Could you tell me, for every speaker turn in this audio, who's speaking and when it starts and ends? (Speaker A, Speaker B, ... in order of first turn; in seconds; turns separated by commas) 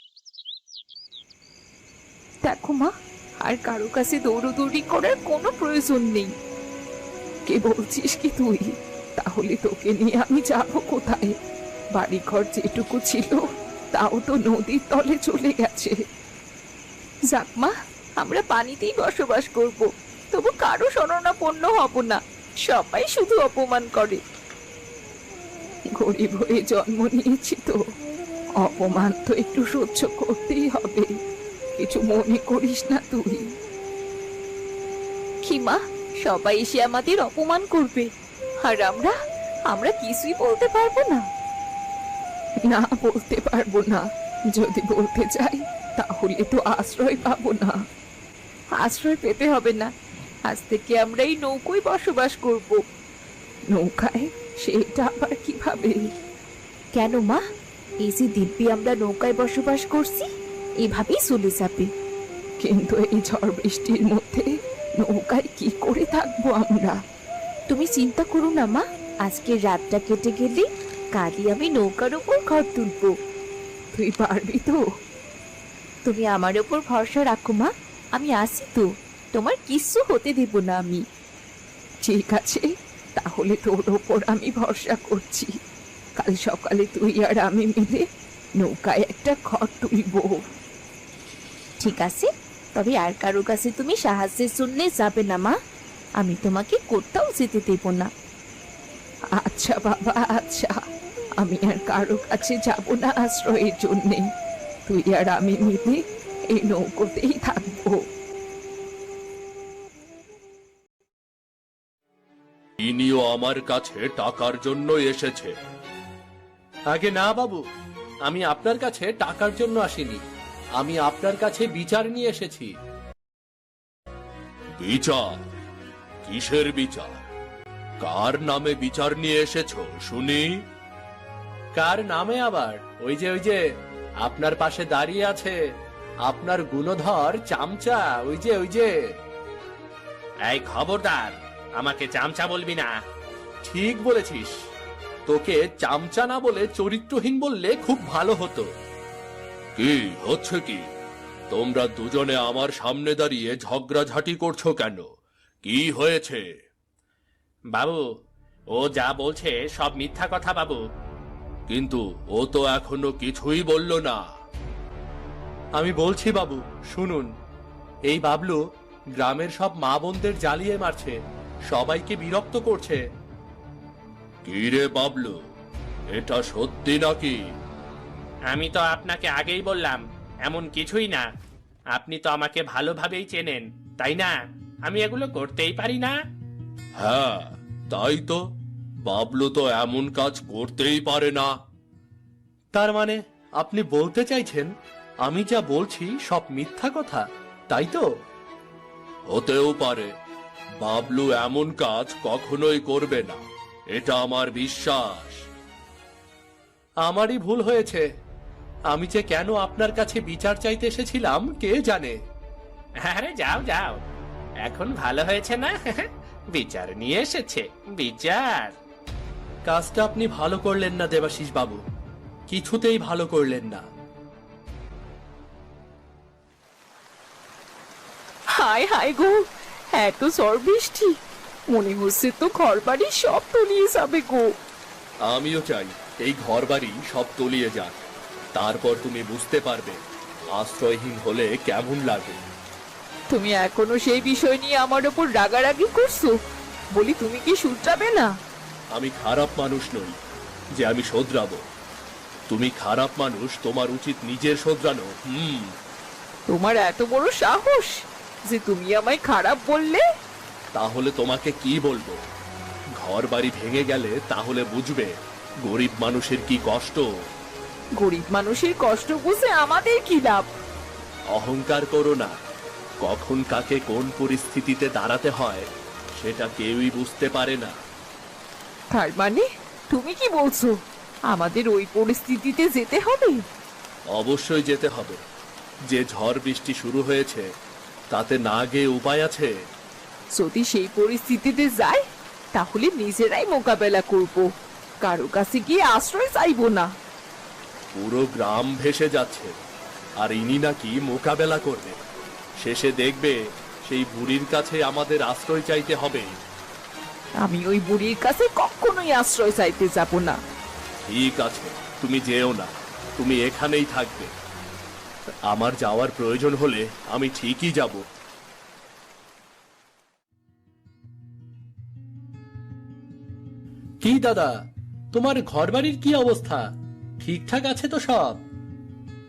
Speaker A: 2.4-6.3, Speaker A: 7.5-11.3, Speaker A: 11.9-16.0, Speaker A: 17.3-24.2, Speaker A: 25.9-27.8, Speaker A: 28.6-31.1, Speaker A: 31.8-33.5, Speaker A: 35.4-38.1, Speaker A: 38.6-39.1, Speaker A: 39.7-41.2, Speaker A: 42.6-47.8, Speaker A: 48.8-49.9, Speaker A: 50.5-52.8, Speaker A: 53.7-56.1, Speaker A: 56.9-57.4, Speaker A: 58.0-60.3, Speaker A: 60.8-61.9, Speaker A: 62.6-67.0, Speaker A: 67.7-73.1, Speaker A: 73.9-74.8, Speaker A: 76.0-81.0, Speaker A: 82.0-85.5, Speaker A: 86.2-88.0, Speaker A: 88.6-90.4, Speaker A: 91.8-95.5, Speaker A: 96.2-98.1, Speaker A: 99.4-100.8, Speaker A: 101.4-104.3, Speaker A: 104.9-106.0, Speaker A: 106.5-108.0, Speaker B: 112.8-115.5, Speaker B: 116.9-117.6, Speaker B: 118.2-120.2, Speaker B: 120.8-122.8, Speaker B: 124.8-125.5, Speaker B: 126.2-127.2, Speaker B: 128.0-130.6, Speaker B: 131.7-133.6, Speaker B: 134.2-135.6, Speaker B: 136.2-138.9, Speaker C: 140.4-143.0, Speaker B: 143.6-144.5, Speaker B: 145.3-148.7, Speaker B: 149.8-150.9, Speaker B: 151.5-155.1, Speaker B: 155.6-156.5, Speaker C: 157.7-158.1, Speaker C: 158.7-160.8, Speaker B: 161.7-164.2, Speaker B: 165.8-167.3, Speaker B: 168.1-168.6, Speaker B: 169.2-173.0, Speaker B: 174.4-175.4, Speaker B: 176.1-177.4, Speaker C: 178.5-181.3, Speaker C: 181.9-186.2, Speaker B: 187.0-188.4, Speaker B: 189.0-191.5, Speaker B: 192.7-194.7, Speaker B: 195.2-198.1, Speaker B: 199.3-200.1, Speaker B: 200.8-205.5, Speaker B: 207.0-208.0, Speaker B: 208.9-212.2, Speaker C: 213.0-214.0, Speaker C: 214.6-218.7, Speaker B: 219.7-221.8, Speaker B: 222.5-223.8, Speaker A: 228.6-229.4, Speaker A: 229.9-231.2, Speaker A: 231.7-234.5, Speaker B: 235.2-240.0, Speaker B: 240.5-242.4, Speaker A: 243.3-246.4, Speaker A: 246.9-248.3, Speaker B: 248.9-250.2, Speaker B: 250.8-251.6, Speaker B: 252.5-255.7, Speaker A: 256.5-260.0, Speaker B: 260.7-262.2, Speaker B: 263.0-267.1, Speaker A: 268.0-270.5, Speaker B: 271.3-272.4, Speaker B: 273.0-277.7, Speaker A: 278.9-280.8, Speaker A: 281.3-283.4, Speaker B: 284.1-285.2, Speaker B: 285.9-287.4, Speaker B: 288.1-289.5, Speaker A: 290.4-292.0, Speaker A: 292.5-294.5, Speaker A: 295.0-296.9, Speaker B: 297.9-299.5, Speaker B: 300.2-302.0, Speaker B: 302.6-306.3, Speaker A: 307.4-310.4, Speaker B: 311.1-314.3, Speaker B: 315.5-318.0, Speaker B: 324.0-324.5, Speaker B: 325.1-326.6, Speaker B: 327.2-328.4